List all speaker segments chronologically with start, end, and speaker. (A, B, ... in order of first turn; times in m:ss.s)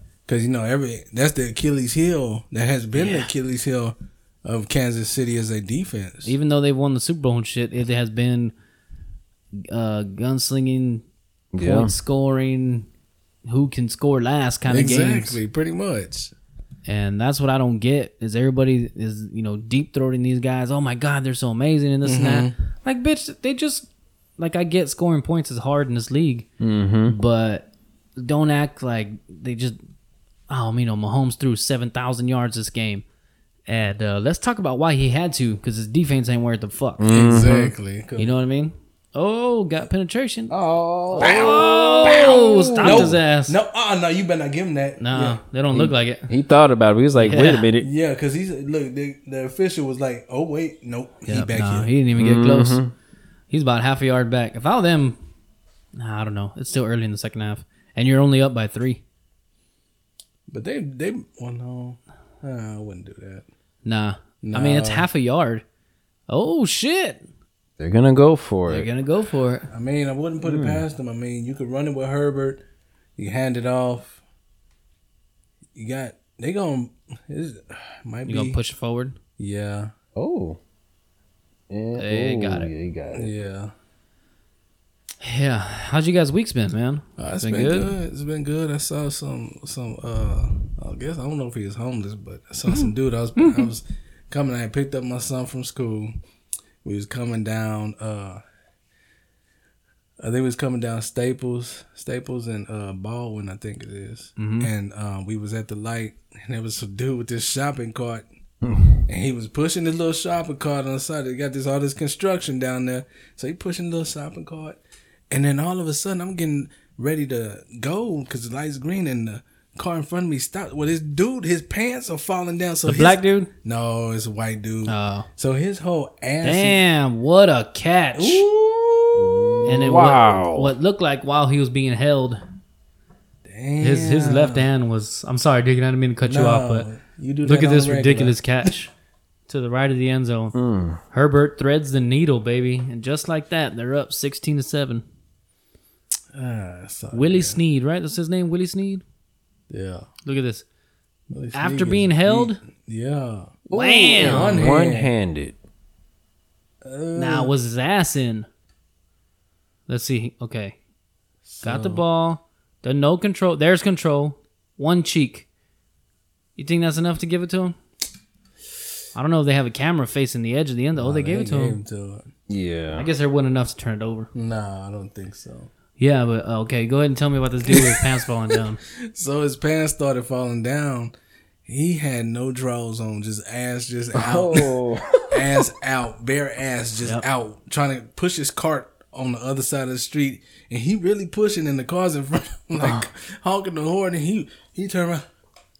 0:00.2-0:06.3 A
0:03.0-0:03.3 B
0:06.2-0:08.5 B
0:09.6-0:11.0 B
0:11.5-0:11.9 C
0:11.6-0:12.9 B
0:13.4-0:15.4 B
0:14.7-0:16.3 A
0:16.8-0:26.5 B
0:22.0-0:22.5 A
0:26.6-0:27.2 C
0:27.0-0:29.8 B
0:30.5-0:33.0 B
0:33.7-0:37.0 B
0:37.0-0:37.7 C
0:37.1-0:38.3 A
0:38.2-0:40.5 B
0:40.5-0:43.2 C
0:41.1-0:43.6 B
0:41.2-0:45.4 A
0:45.0-0:46.3 B
0:45.7-0:47.9 C
0:47.2-0:47.7 B
0:47.8-0:51.9 A
0:51.2-0:52.8 B
0:52.2-0:52.9 C
0:53.5-0:55.2 B
0:56.0-0:59.0 B
1:00.5-1:03.5 A
1:03.8-1:05.6 B
1:04.4-1:05.1 A
1:06.3-1:07.3 B
1:07.8-1:08.9 C
1:08.7-1:09.7 B
1:09.7-1:12.6 A
1:10.4-1:10.8 C
1:13.2-1:14.2 A
1:15.7-1:18.6 A
1:18.3-1:19.2 B
1:19.4-1:19.9 A
1:20.1-1:20.6 C
1:21.7-1:23.3 C
1:22.0-1:22.7 B
1:23.1-1:23.7 A
1:25.2-1:27.9 B
1:27.2-1:36.1 A
1:33.4-1:33.6 B
1:36.8-1:38.4 A
1:40.2-1:48.2 A
1:44.4-1:44.7 B
1:48.6-1:49.0 C
1:49.1-1:54.8 A
1:55.3-2:06.8 A
2:02.8-2:03.5 B
2:04.8-2:05.3 B
2:06.4-2:08.4 B
2:08.1-2:09.7 A
2:09.1-2:10.7 C
2:09.6-2:12.4 B
2:13.4-2:14.7 A
2:13.8-2:16.9 B
2:16.2-2:18.7 A
2:17.4-2:18.9 B
2:19.5-2:20.6 B
2:20.5-2:21.0 C
2:21.1-2:25.0 B
2:26.3-2:27.6 A
2:27.1-2:29.0 B
2:29.7-2:30.0 A
2:30.2-2:30.6 B
2:31.3-2:33.6 A
2:31.5-2:32.6 B
2:33.7-2:34.7 B
2:33.7-2:35.6 C
2:34.2-2:35.1 A
2:36.8-2:37.5 A
2:37.1-2:38.5 B
2:39.9-2:40.8 B
2:41.4-2:42.0 A
2:41.6-2:45.5 B
2:46.6-2:47.8 B
2:49.1-2:51.8 B
2:50.9-2:52.3 A
2:52.5-2:53.1 C
2:53.0-2:54.3 B
2:54.3-2:55.7 A
2:56.0-2:58.8 B
2:57.7-2:58.2 A
2:58.9-3:01.1 A
3:01.6-3:15.2 A
3:04.1-3:05.6 C